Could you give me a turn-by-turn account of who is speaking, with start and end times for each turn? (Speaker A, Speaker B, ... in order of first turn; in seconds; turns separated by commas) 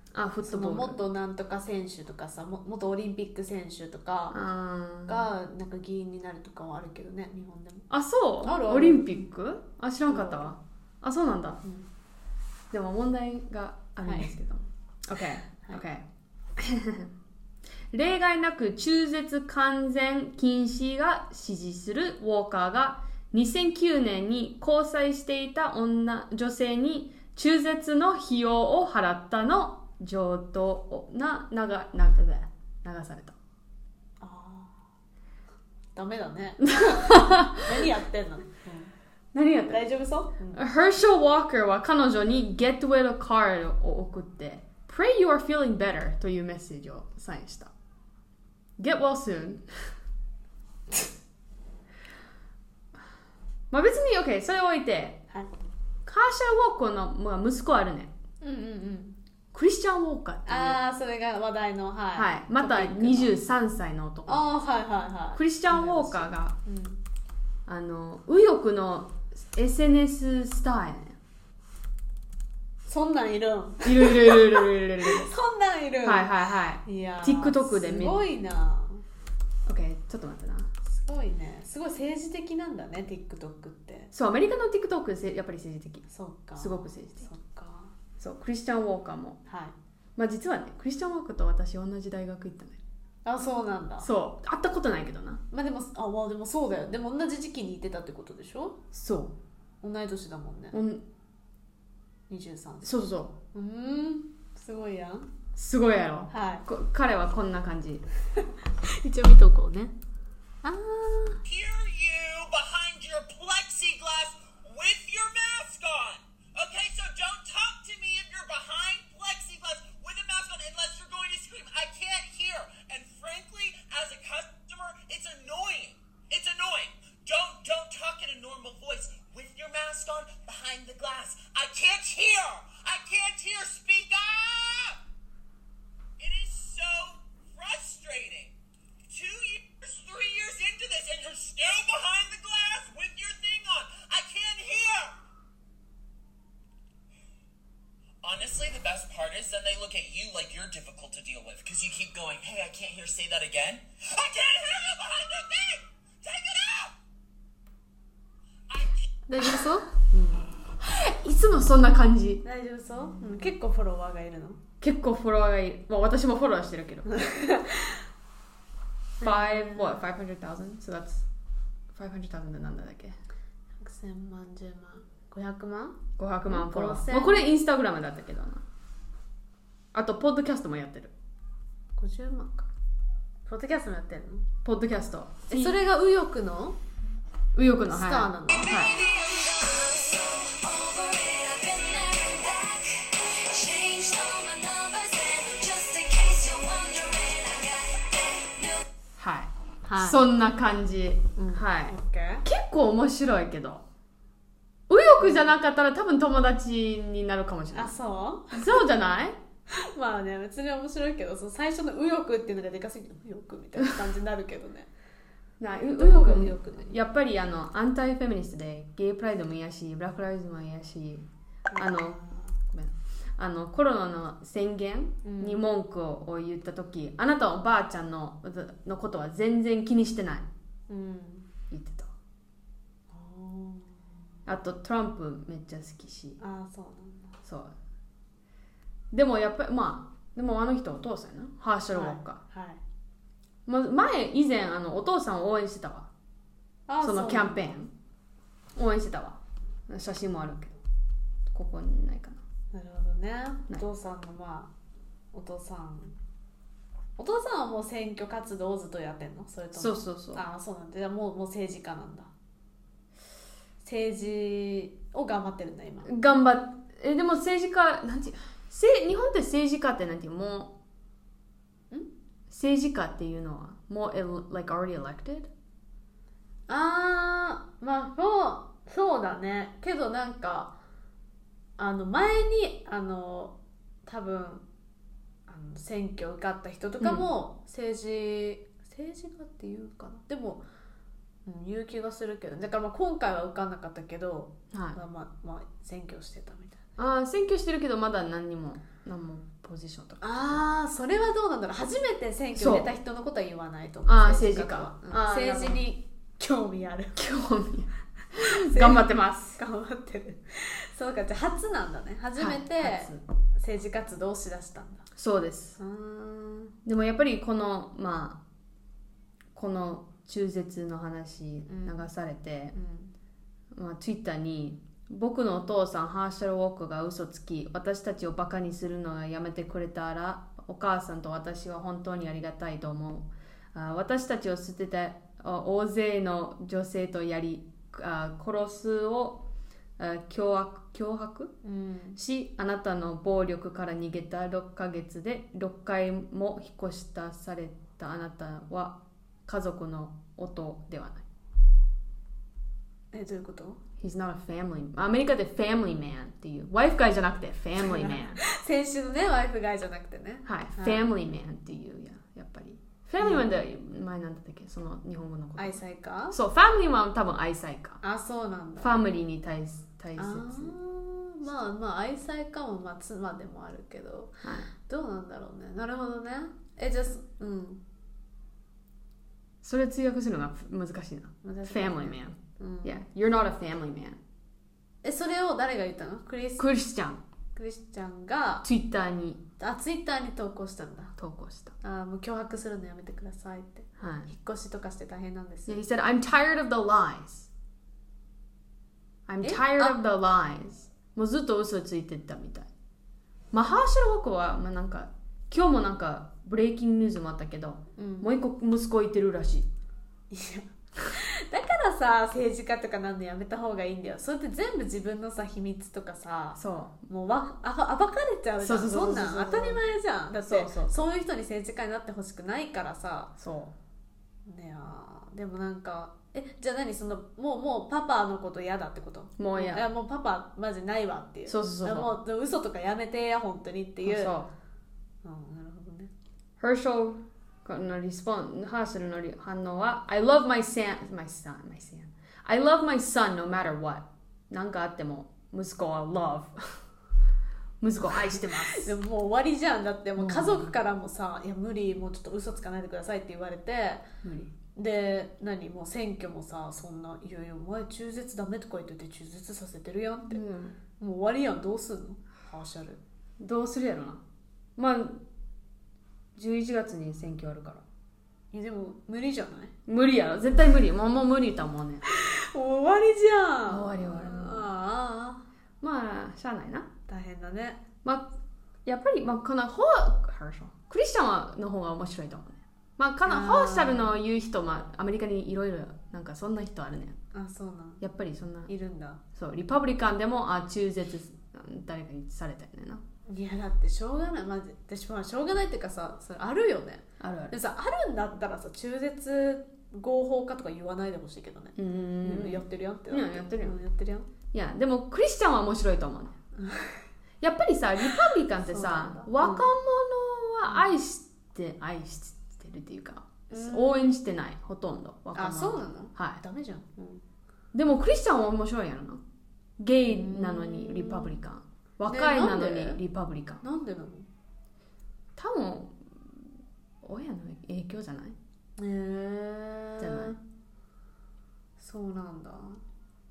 Speaker A: 0.1-1.0, Speaker B: 0.4-4.4, Speaker A: 4.3-5.3, Speaker B: 5.0-7.9, Speaker A: 7.9-11.6, Speaker B: 8.4-9.3, Speaker B: 10.1-10.5, Speaker A: 12.7-16.1, Speaker B: 14.0-14.3, Speaker A: 16.6-17.1, Speaker A: 17.9-33.3, Speaker B: 34.2-34.8, Speaker B: 35.9-38.9, Speaker A: 36.6-37.6, Speaker A: 39.3-39.8, Speaker B: 39.7-40.6, Speaker A: 40.5-47.7, Speaker A: 48.8-49.6, Speaker A: 53.7-55.2, Speaker A: 56.0-58.1, Speaker B: 58.4-59.2, Speaker A: 59.5-60.8, Speaker B: 60.5-63.3, Speaker A: 62.1-64.5, Speaker B: 64.2-67.0, Speaker A: 65.3-66.5, Speaker A: 67.7-71.2, Speaker B: 72.8-76.3, Speaker A: 73.8-75.3, Speaker A: 76.0-78.2, Speaker B: 76.8-79.0, Speaker A: 79.6-80.7, Speaker B: 80.8-84.1, Speaker A: 84.1-86.0, Speaker B: 86.1-87.9, Speaker A: 86.6-87.3, Speaker A: 88.2-89.4, Speaker B: 89.5-89.7, Speaker A: 90.2-92.8, Speaker B: 93.2-94.1, Speaker A: 94.0-95.4, Speaker B: 95.5-98.8, Speaker A: 98.9-99.3, Speaker B: 99.8-100.8, Speaker A: 100.7-101.0, Speaker B: 102.3-103.0, Speaker A: 102.8-103.3, Speaker B: 103.5-105.3, Speaker A: 105.5-108.0, Speaker B: 106.3-106.6, Speaker B: 108.4-109.9, Speaker B: 110.6-111.4, Speaker C: 111.4-135.0, Speaker C: 136.2-138.5, Speaker C: 139.1-145.1, Speaker C: 148.2-156.9, Speaker C: 158.7-159.0, Speaker B: 159.3-160.5, Speaker A: 160.8-162.4, Speaker B: 162.4-164.6, Speaker A: 164.8-167.1, Speaker B: 167.1-168.0, Speaker B: 169.2-170.0, Speaker A: 169.2-171.3, Speaker A: 171.9-173.2, Speaker B: 173.8-177.4, Speaker A: 176.2-178.6, Speaker A: 179.9-181.1, Speaker B: 182.0-182.7, Speaker B: 183.4-184.4, Speaker A: 184.6-185.8, Speaker B: 185.5-186.8, Speaker A: 187.5-189.0, Speaker B: 187.9-188.7, Speaker D: 188.5-198.8, Speaker A: 199.2-203.8, Speaker B: 199.8-200.2, Speaker B: 201.3-202.4, Speaker A: 204.9-207.9, Speaker B: 205.2-205.4, Speaker B: 207.7-208.8, Speaker A: 208.5-209.4, Speaker B: 209.7-214.9, Speaker A: 215.6-230.5, Speaker B: 215.9-216.9, Speaker B: 221.7-222.5, Speaker B: 225.2-225.6, Speaker B: 230.9-231.5, Speaker A: 231.7-232.1, Speaker B: 233.1-234.1, Speaker A: 234.4-236.4, Speaker B: 236.4-237.4, Speaker A: 237.4-237.7, Speaker A: 239.1-242.4, Speaker B: 241.9-242.8, Speaker A: 243.7-246.1, Speaker B: 246.9-247.7, Speaker A: 247.0-247.9, Speaker A: 248.8-250.8, Speaker A: 251.5-252.4, Speaker B: 252.7-254.7, Speaker B: 255.3-256.1, Speaker B: 257.2-262.3, Speaker A: 259.7-260.4, Speaker B: 263.8-266.1, Speaker A: 266.1-270.7, Speaker A: 272.5-275.5, Speaker B: 276.7-280.7, Speaker B: 281.8-284.6, Speaker B: 285.5-290.6, Speaker A: 287.0-287.3, Speaker B: 291.4-296.9, Speaker A: 294.7-295.0, Speaker A: 297.0-300.6, Speaker B: 300.2-307.2, Speaker A: 302.5-302.9, Speaker A: 304.1-305.8, Speaker A: 307.1-309.6, Speaker B: 308.3-315.1, Speaker A: 312.4-313.2, Speaker A: 315.1-315.8, Speaker B: 315.8-316.7, Speaker A: 316.8-318.4, Speaker A: 319.5-322.7, Speaker B: 321.6-322.1, Speaker B: 322.7-323.1, Speaker A: 323.7-339.4, Speaker A: 340.0-341.5, Speaker B: 341.6-342.2, Speaker A: 342.1-351.2, Speaker B: 353.1-353.8, Speaker A: 354.0-358.4, Speaker B: 357.8-361.1, Speaker A: 360.4-368.0, Speaker B: 363.2-363.5, Speaker B: 365.6-366.4, Speaker B: 368.0-368.9, Speaker A: 368.8-370.7, Speaker B: 370.1-377.8, Speaker A: 374.4-374.7, Speaker A: 379.6-384.2, Speaker B: 381.4-383.0, Speaker B: 385.0-386.7, Speaker A: 386.6-387.2, Speaker B: 387.5-388.6, Speaker A: 388.6-389.4, Speaker B: 389.6-391.1, Speaker A: 391.2-391.7, Speaker B: 391.8-395.8, Speaker A: 394.0-394.3, Speaker A: 395.7-397.5, Speaker A: 399.3-402.7, Speaker B: 399.4-400.0, Speaker A: 403.5-409.7, Speaker B: 408.0-408.3, Speaker B: 410.3-423.3, Speaker A: 416.6-417.0, Speaker A: 418.6-419.8, Speaker A: 420.4-421.0, Speaker A: 423.4-423.7, Speaker B: 424.4-434.3, Speaker A: 429.4-429.8, Speaker A: 431.5-432.1, Speaker A: 434.0-434.5, Speaker B: 435.2-436.1, Speaker A: 436.6-446.8, Speaker A: 447.8-448.9, Speaker B: 448.3-454.0, Speaker A: 450.2-450.7, Speaker A: 454.2-454.5, Speaker B: 454.7-460.4, Speaker A: 460.3-460.8, Speaker B: 461.0-463.0, Speaker A: 463.4-464.2, Speaker A: 464.8-465.2, Speaker A: 466.3-467.8, Speaker B: 468.5-469.7, Speaker A: 469.9-472.0, Speaker B: 472.1-475.4, Speaker A: 473.7-474.7, Speaker A: 475.8-476.9, Speaker B: 477.1-477.8, Speaker A: 478.0-478.3, Speaker A: 478.9-487.2, Speaker B: 483.2-484.1, Speaker B: 487.3-488.0, Speaker A: 488.0-488.7, Speaker B: 488.7-489.2, Speaker A: 489.3-493.0, Speaker B: 493.3-504.3, Speaker A: 497.2-497.6, Speaker A: 501.8-503.8, Speaker A: 504.5-506.3, Speaker B: 506.5-507.1, Speaker A: 507.4-516.4, Speaker B: 508.6-509.7, Speaker B: 513.5-514.1, Speaker B: 515.3-517.2, Speaker A: 517.7-519.2, Speaker A: 519.8-523.6, Speaker B: 520.1-521.4, Speaker B: 522.1-523.0, Speaker B: 523.6-524.3, Speaker A: 525.4-526.5, Speaker A: 527.0-528.4, Speaker B: 528.8-530.4, Speaker A: 530.0-530.4, Speaker B: 531.8-532.8